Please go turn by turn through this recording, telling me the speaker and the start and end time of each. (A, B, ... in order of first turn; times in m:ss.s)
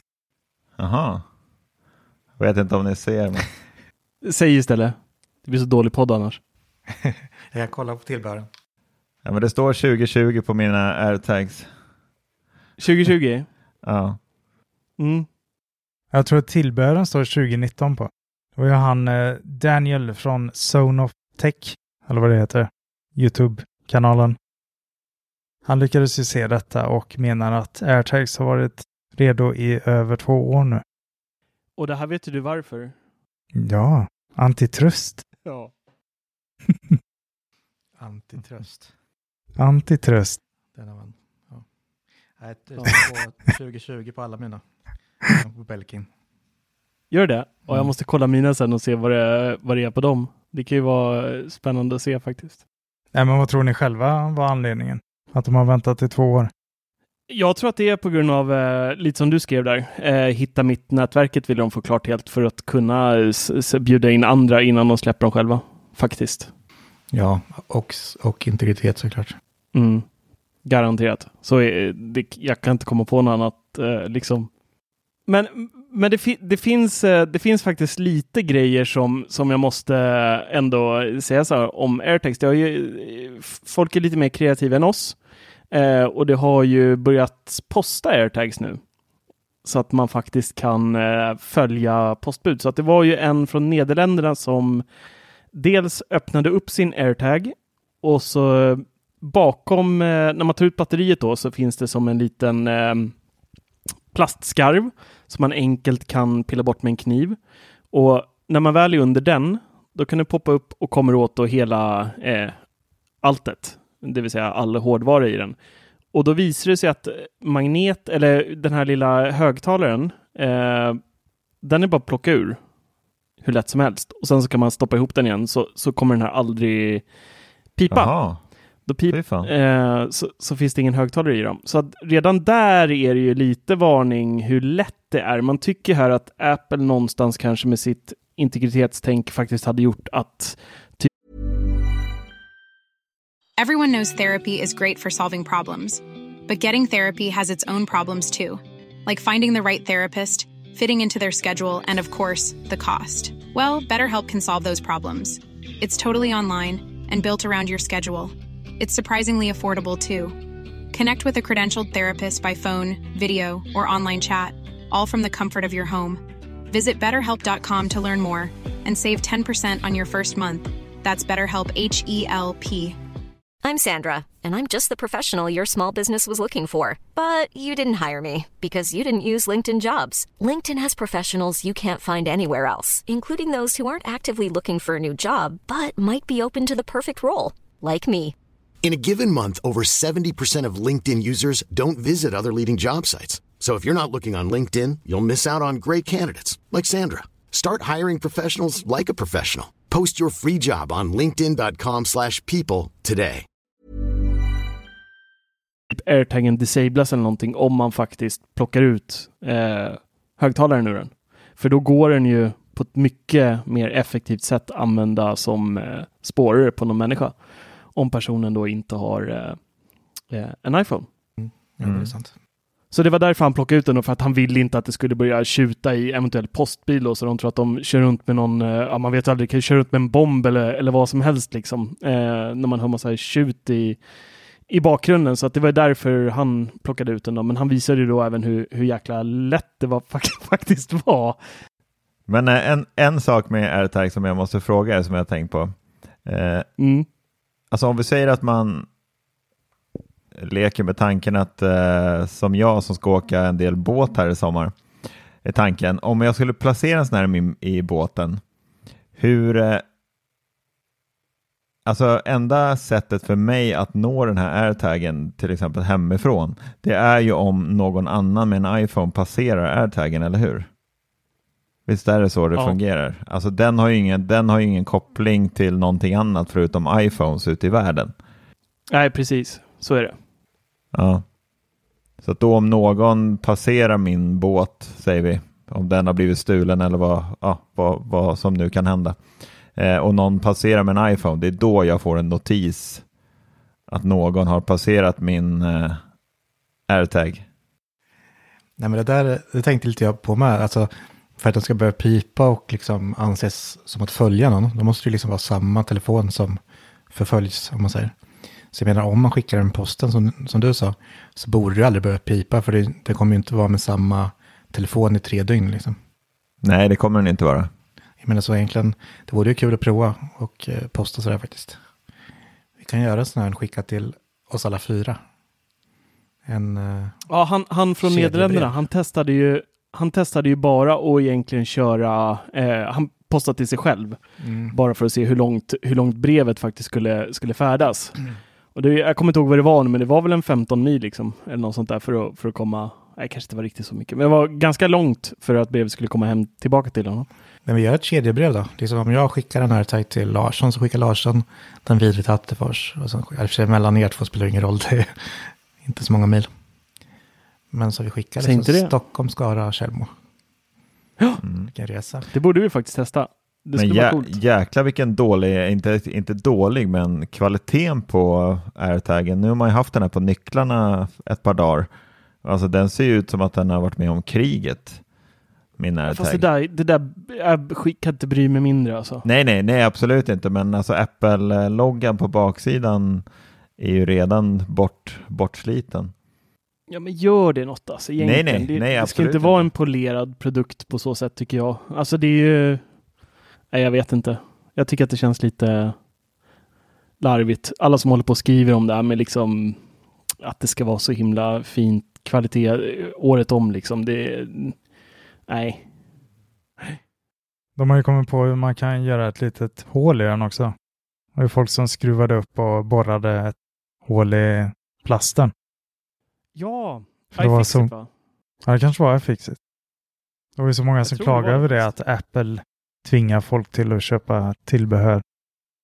0:00.8-0:01.2 A
0:02.4-0:03.5 A
0:04.2-0:06.4 B
0:06.9-0:08.5 C
0:09.2-0:11.7 A
0:12.8-0:13.5 B
0:13.8-0:14.2 A
0:15.0-0:15.3 B
0:16.1-0:24.4 D
0:25.7-0:30.8 D
0:31.8-0:33.0 B
0:33.6-0:35.2 D
0:35.4-0:35.7 B
0:38.0-0:38.9 C
0:39.6-0:40.4 D
0:40.7-0:41.6 C
0:42.4-0:44.6 C
0:45.2-0:46.1 C
0:47.1-0:52.6 B
0:53.1-0:56.5 D
0:57.3-1:06.5 B
1:07.1-1:09.4 C
1:09.7-1:10.0 B
1:10.6-1:14.5 B
1:15.3-1:25.2 B
1:25.7-1:28.8 B
1:29.6-1:34.8 B
1:35.5-1:43.1 B
1:44.1-1:47.4 B
1:47.9-1:52.6 B
1:53.2-1:55.6 B
1:56.1-2:01.0 B
2:01.6-2:02.6 B
2:03.4-2:07.0 B
2:07.8-2:21.1 B
2:07.9-2:08.4 A
2:09.1-2:09.5 A
2:23.6-2:40.4 E
2:40.9-2:53.0 E
2:53.6-3:08.4 F
3:08.8-3:23.4 G
3:25.9-3:39.6 B
3:40.3-3:41.1 B
3:41.4-3:42.3 C
3:41.8-3:42.1 A
3:42.9-3:54.0 B
3:54.7-4:01.4 B
4:02.3-4:05.7 A
4:06.2-4:06.7 A
4:06.8-4:07.1 B
4:07.7-4:08.9 A
4:10.4-4:14.8 A
4:15.4-4:18.4 A
4:19.2-4:19.8 A
4:21.9-4:30.7 A
4:31.9-4:38.1 A
4:38.9-4:40.2 B
4:40.9-4:41.2 A
4:42.2-4:49.2 A
4:49.8-4:53.0 A
4:53.9-4:56.0 A
4:56.9-4:57.4 A
4:58.8-5:06.6 C
5:07.1-5:08.2 C
5:08.7-5:16.0 C
5:16.6-5:17.7 A
5:18.2-5:21.8 C
5:22.8-5:25.2 C
5:26.5-5:27.2 C
5:27.3-5:34.2 B
5:28.0-5:28.8 C
5:34.4-5:34.8 C
5:34.7-5:38.2 B
5:38.7-5:47.3 B
5:47.6-5:56.5 C
5:57.7-6:00.1 C
5:58.4-5:58.9 B
6:01.4-6:01.7 A
6:01.7-6:02.3 C
6:02.3-6:04.3 B
6:03.8-6:11.9 A
6:12.4-6:15.0 A
6:15.8-6:16.4 A
6:16.1-6:19.2 B
6:19.2-6:23.2 A
6:23.8-6:26.1 A
6:26.9-6:32.8 B
6:28.2-6:29.7 A
6:33.7-6:36.0 B
6:37.2-6:39.8 B
6:40.4-6:44.8 B
6:45.5-6:45.9 B
6:47.8-6:50.8 D
6:51.4-6:55.5 D
6:56.6-6:58.1 B
6:57.4-6:57.9 D
6:58.6-6:59.6 D
7:00.6-7:05.2 D
7:01.0-7:01.9 B